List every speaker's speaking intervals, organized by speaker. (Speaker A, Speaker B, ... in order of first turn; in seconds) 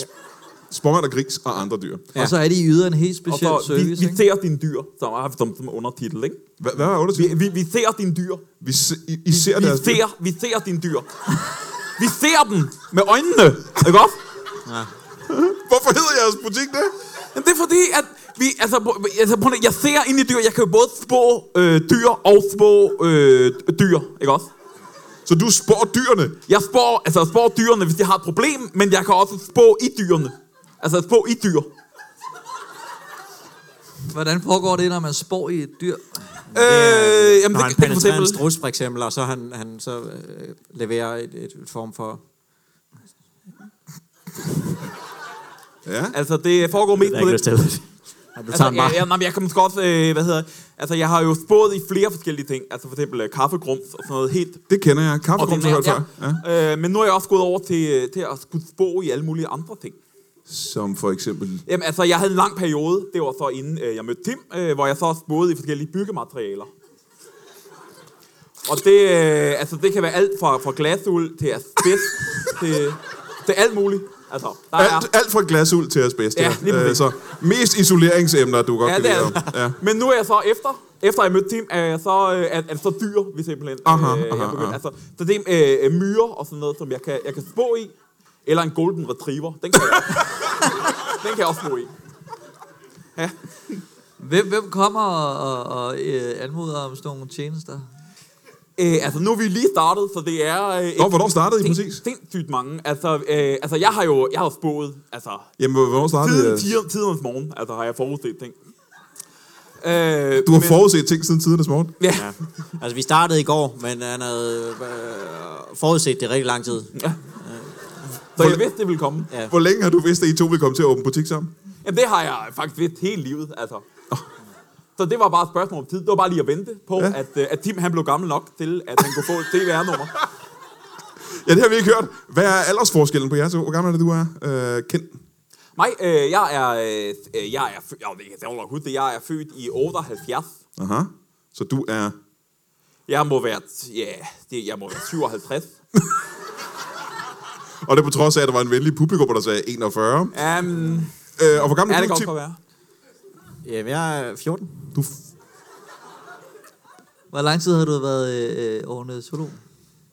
Speaker A: 0.7-2.1, 6.6-7.3, 8.6-10.0, 15.3-16.9, 25.2-26.4, 45.8-46.1, 54.7-56.4, 60.5-61.6, 74.8-79.8, 83.8-84.8, 101.0-102.0, 105.6-106.7, 110.4-112.0, 118.4-118.6, 119.5-121.5, 131.3-135.1, 140.8-142.2, 147.8-150.4, 151.4-152.3
Speaker B: 2.1-4.2, 34.1-36.3, 94.2-97.9, 157.3-159.6
Speaker C: 3.3-6.4, 7.1-8.4, 9.3-11.3, 12.0-14.2, 17.3-24.5, 26.5-31.7, 36.5-38.4, 46.1-47.4, 48.5-54.6, 55.4-60.0, 61.6-66.7, 68.6-75.1, 76.3-77.1, 78.8-87.9, 88.5-91.9, 93.2-93.8, 98.8-105.5, 106.2-108.5, 109.8-110.8, 112.0-112.3, 118.3-119.3, 121.8-123.8, 125.0-130.2, 135.8-140.6, 143.1-145.7, 150.3-151.1, 151.7-152.6
Speaker D: 14.6-14.9, 36.5-42.2, 47.0-49.0, 112.1-117.8, 153.6-154.9